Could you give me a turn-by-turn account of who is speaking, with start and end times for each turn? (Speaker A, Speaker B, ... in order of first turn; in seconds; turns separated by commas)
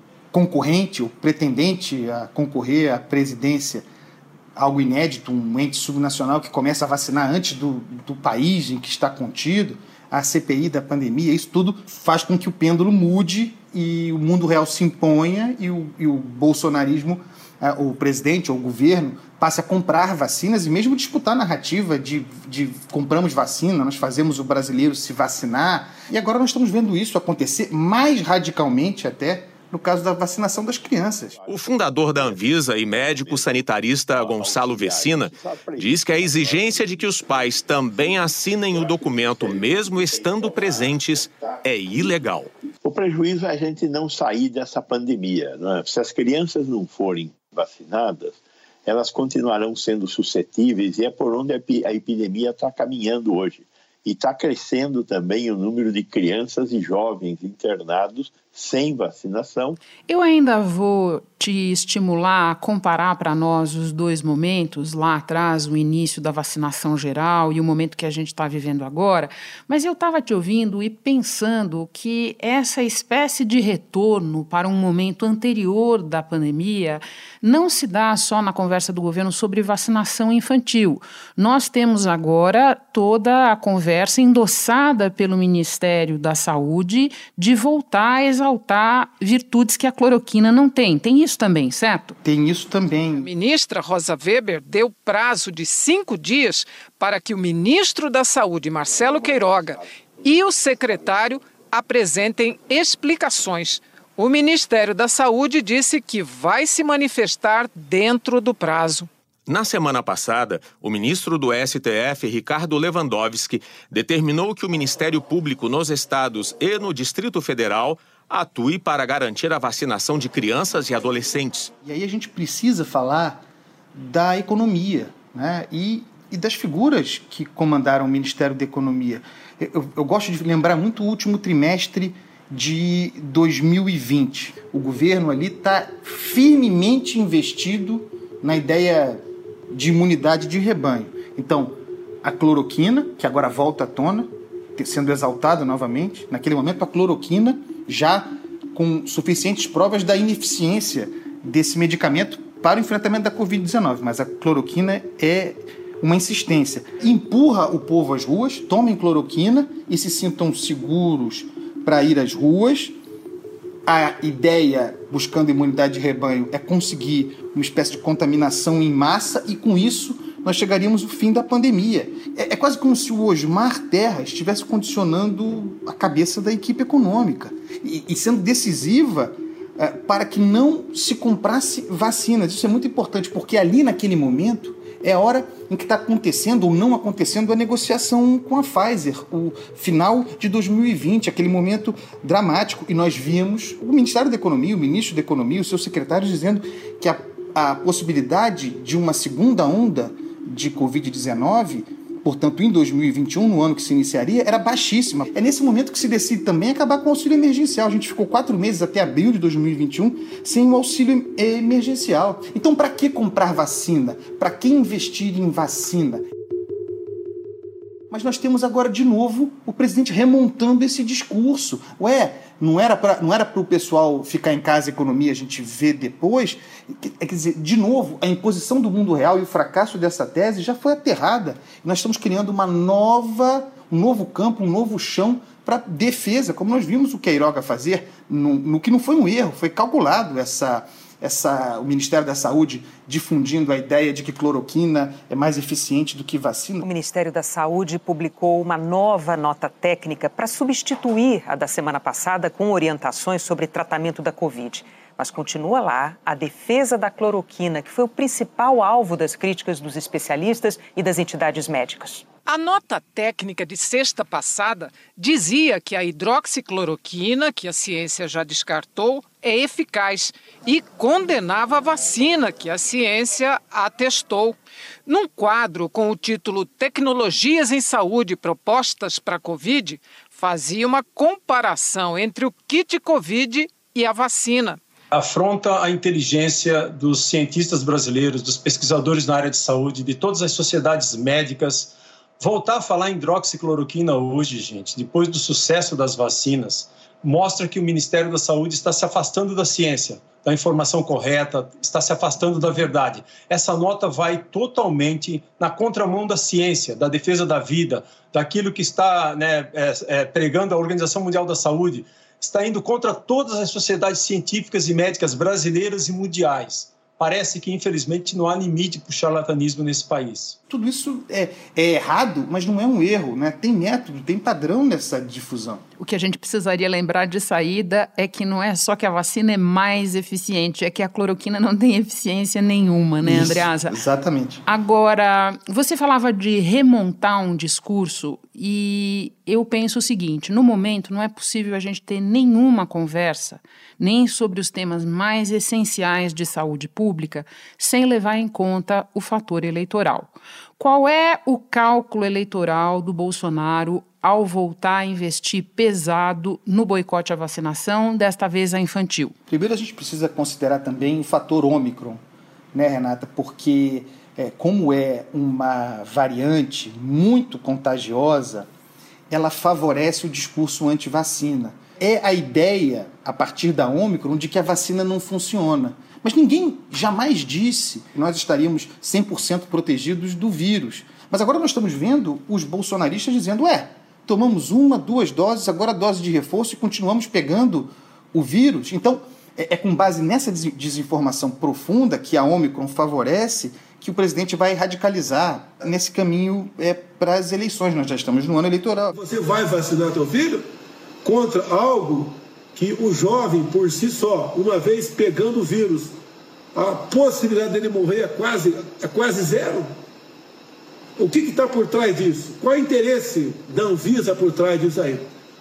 Speaker A: 0.3-3.9, Speaker A: 4.6-31.4, Speaker B: 31.5-42.5, Speaker C: 34.2-36.6, Speaker C: 42.8-59.8, Speaker D: 60.1-92.2, Speaker A: 92.2-93.3, Speaker E: 93.2-109.1, Speaker B: 109.5-121.7, Speaker A: 121.8-123.4, Speaker A: 124.0-163.0, Speaker A: 163.8-216.2, Speaker A: 218.1-246.9, Speaker F: 246.8-262.3, Speaker E: 262.5-284.8, Speaker G: 285.1-320.6, Speaker A: 320.7-325.8, Speaker D: 326.0-334.0, Speaker A: 333.2-334.6, Speaker D: 334.7-359.4, Speaker A: 359.5-362.2, Speaker A: 362.7-368.7, Speaker A: 369.3-399.1, Speaker H: 399.1-400.7, Speaker H: 401.2-406.2, Speaker H: 406.8-409.9, Speaker H: 411.2-415.3